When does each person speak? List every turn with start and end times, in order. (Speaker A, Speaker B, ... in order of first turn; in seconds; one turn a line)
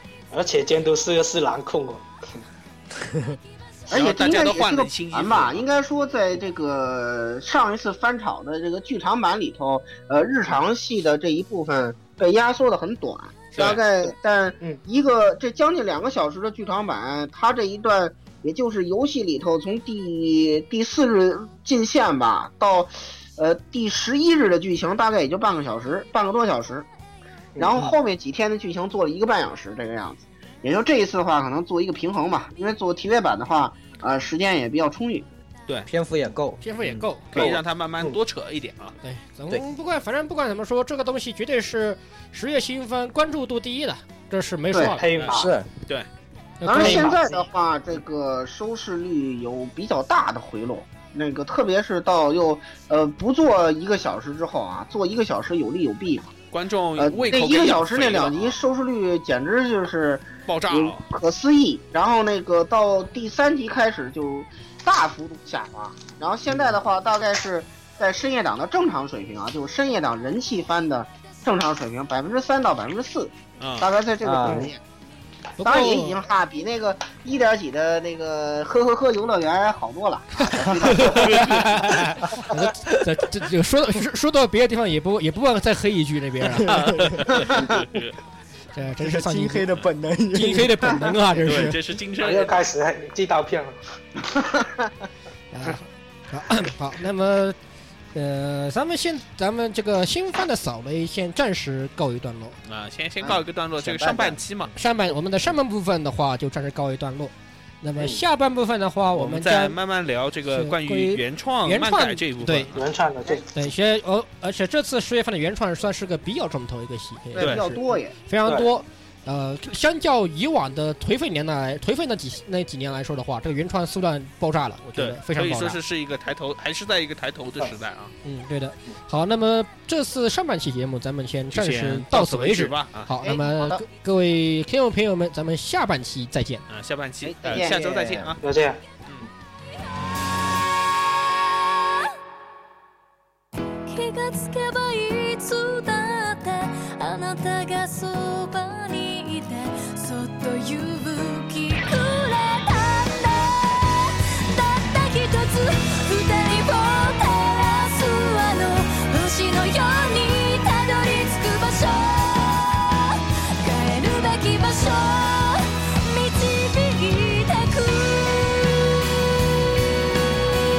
Speaker A: 0.3-2.4
Speaker B: 3.0-3.4
Speaker C: 3.9-5.7
Speaker D: 3.9-26.9
Speaker C: 13.6-13.8
Speaker A: 27.6-27.9
Speaker D: 27.6-35.3
Speaker B: 35.9-36.6
Speaker E: 36.6-37.5
Speaker C: 36.8-39.0
Speaker A: 37.4-38.2
Speaker E: 39.0-45.0
Speaker D: 44.7-45.0
Speaker A: 45.0-45.6
Speaker C: 45.2-46.1
Speaker B: 45.3-45.7
Speaker E: 46.6-47.2
Speaker D: 46.6-56.3
Speaker C: 56.5-58.6
Speaker D: 57.0-74.8
Speaker C: 60.5-61.0
Speaker C: 73.6-73.9
Speaker B: 74.2-74.7
Speaker A: 74.4-74.7
Speaker E: 75.6-76.2
Speaker D: 75.6-81.3
Speaker E: 80.4-86.7
Speaker C: 81.0-81.9
Speaker B: 86.7-87.2
Speaker C: 86.7-88.2
Speaker D: 87.3-87.6
Speaker E: 88.7-89.7
Speaker B: 89.0-91.1
Speaker E: 90.3-91.8
Speaker C: 91.4-92.5
Speaker A: 92.2-94.2
Speaker D: 94.6-94.9
Speaker E: 95.5-97.6
Speaker E: 98.1-102.6
Speaker C: 102.7-104.7
Speaker D: 103.2-104.4
Speaker E: 104.8-109.8
Speaker A: 108.0-108.2
Speaker C: 109.2-112.9
Speaker E: 110.5-112.7
Speaker A: 112.8-113.6
Speaker E: 113.5-125.8
Speaker D: 117.3-118.1
Speaker A: 118.5-118.7
Speaker C: 125.0-128.1
Speaker E: 128.2-136.7
Speaker C: 131.5-133.1
Speaker D: 133.2-133.8
Speaker C: 136.7-138.4
Speaker D: 137.2-138.4
Speaker A: 138.4-138.8
Speaker F: 143.9-169.1